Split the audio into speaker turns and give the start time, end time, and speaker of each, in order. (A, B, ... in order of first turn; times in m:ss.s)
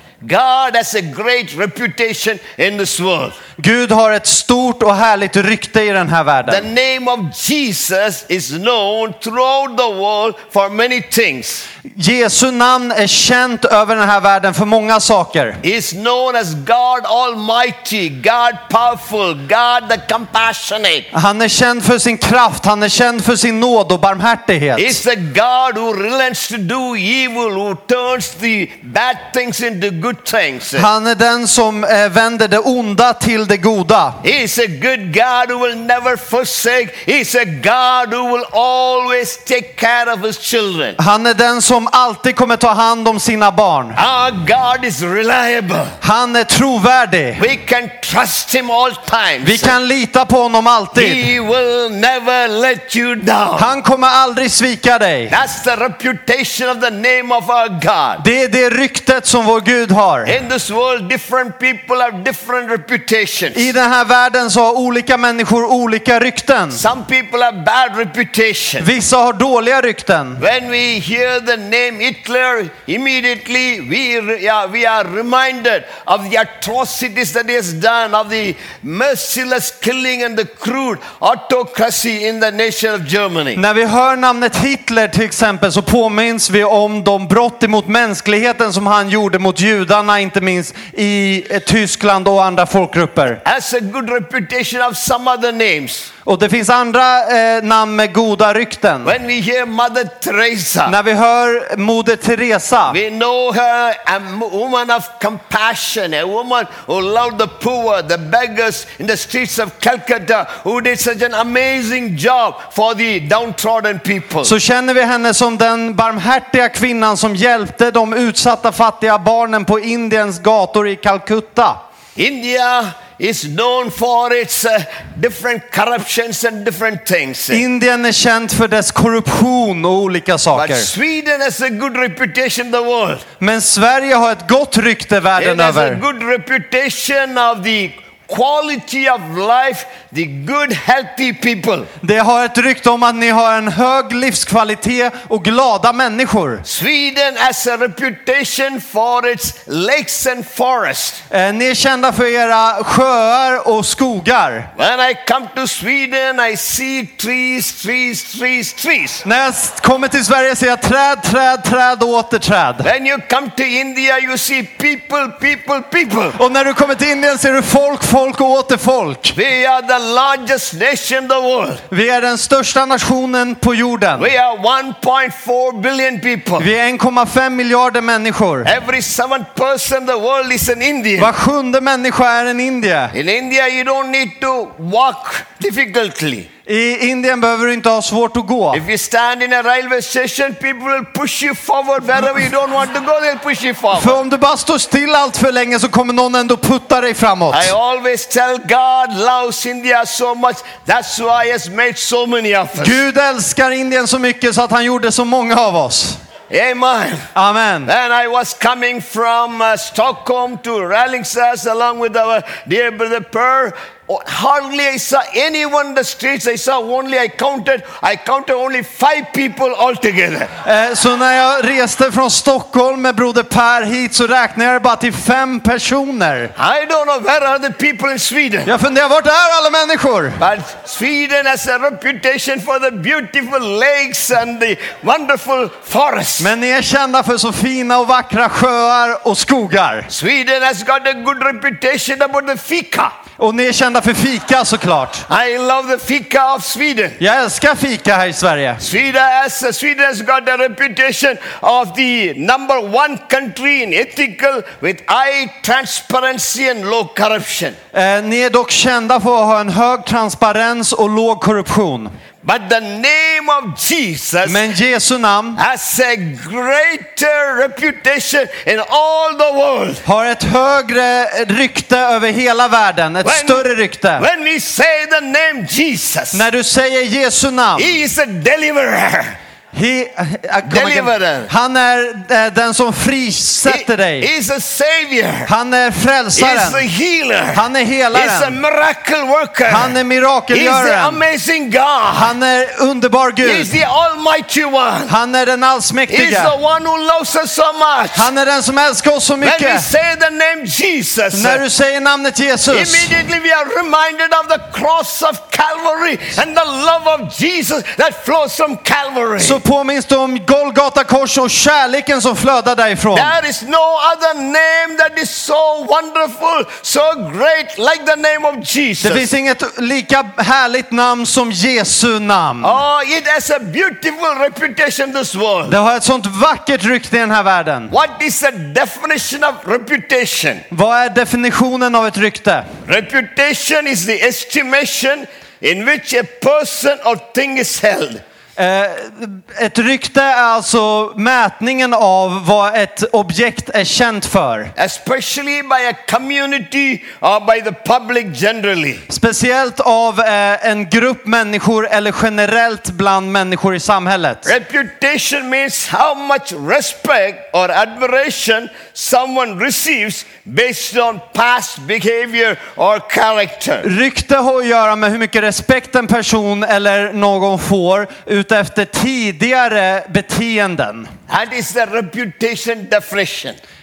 0:00.2-0:03.4 A
0:03.6-0:06.6 B
0:06.5-0:11.6 A
0:11.9-0:15.6 B
0:15.6-0:21.1 A
0:21.1-0:25.0 B
0:24.8-0:30.9 A
0:30.8-0:34.2 B
0:34.2-0:41.0 A
0:41.0-0:44.0 B
0:44.0-0:46.0 A
0:46.0-0:47.4 B
0:47.4-0:49.8 A
0:49.4-0:51.2 B
0:50.9-0:53.7 A
0:53.6-0:55.3 B
0:55.3-0:58.2 A
0:58.2-1:00.3 B
1:00.2-1:03.7 A
1:03.5-1:06.8 B
1:06.7-1:08.9 A
1:08.8-1:10.4 B
1:10.4-1:23.6 A
1:23.6-1:33.4 B
1:33.4-1:36.1 A
1:36.2-1:39.1 B
1:39.0-1:40.9 A
1:40.9-1:43.0 B
1:42.9-1:54.5 A
1:54.4-2:01.8 B
2:02.2-2:07.6 A
2:07.5-2:10.9 B
2:10.5-2:13.2 A
2:13.4-2:16.0 B
2:15.4-2:21.9 A
2:22.0-2:26.6 B
2:26.6-2:31.2 A
2:31.3-2:34.7 B
2:34.8-2:39.2 A
2:39.2-2:42.9 B
2:42.8-2:46.4 A
2:46.4-2:49.4 B
2:49.3-2:51.8 A
2:51.9-2:54.3 B
2:54.2-2:56.7 A
2:56.6-2:58.7 B
2:58.6-3:01.3 A
3:01.2-3:03.1 B
3:03.1-3:06.5 A
3:06.6-3:08.8 B
3:08.7-3:14.2 A
3:13.9-3:17.7 B
3:17.5-3:23.0 A
3:22.8-3:26.2 B
3:26.5-3:27.3 A
3:27.3-3:27.9 B
3:27.8-3:40.5 A
3:40.6-3:46.5 B
3:46.6-3:48.7 A
3:48.6-3:50.4 B
3:50.4-3:56.5 A
3:56.4-4:00.1 B
4:00.1-4:03.1 A
4:03.4-4:05.2 B
4:05.3-4:07.2 A
4:07.2-4:08.8 B
4:08.8-4:17.8 A
4:17.9-4:22.1 B
4:22.4-4:24.6 A
4:24.4-4:25.6 B
4:25.6-4:30.0 A
4:30.0-4:34.2 B
4:33.2-4:33.6 A
4:34.2-4:36.4 A
4:36.3-4:38.0 B
4:37.8-4:39.4 A
4:39.7-4:44.3 B
4:40.6-4:41.5 A
4:43.6-4:45.5 A
4:45.5-4:46.8 B
4:46.4-4:49.9 A
4:47.5-4:48.6 B
4:49.7-4:51.2 B
4:50.5-4:52.3 A
4:52.1-4:53.7 B
4:53.4-4:55.1 A
4:55.1-4:56.5 B
4:56.1-4:58.3 A
4:58.1-4:59.8 B
4:59.4-5:01.6 A
5:01.3-5:03.1 B
5:02.7-5:09.6 A
5:09.4-5:13.3 B
5:13.1-5:19.3 A
5:19.0-5:22.7 B
5:22.6-5:25.8 A
5:25.7-5:27.9 B
5:27.9-5:30.6 A
5:30.7-5:32.7 B
5:32.8-5:38.2 A
5:38.6-5:44.7 B
5:44.8-5:49.0 A
5:49.1-5:54.5 B
5:54.4-6:03.9 A
6:03.8-6:11.1 B
6:11.3-6:13.6 A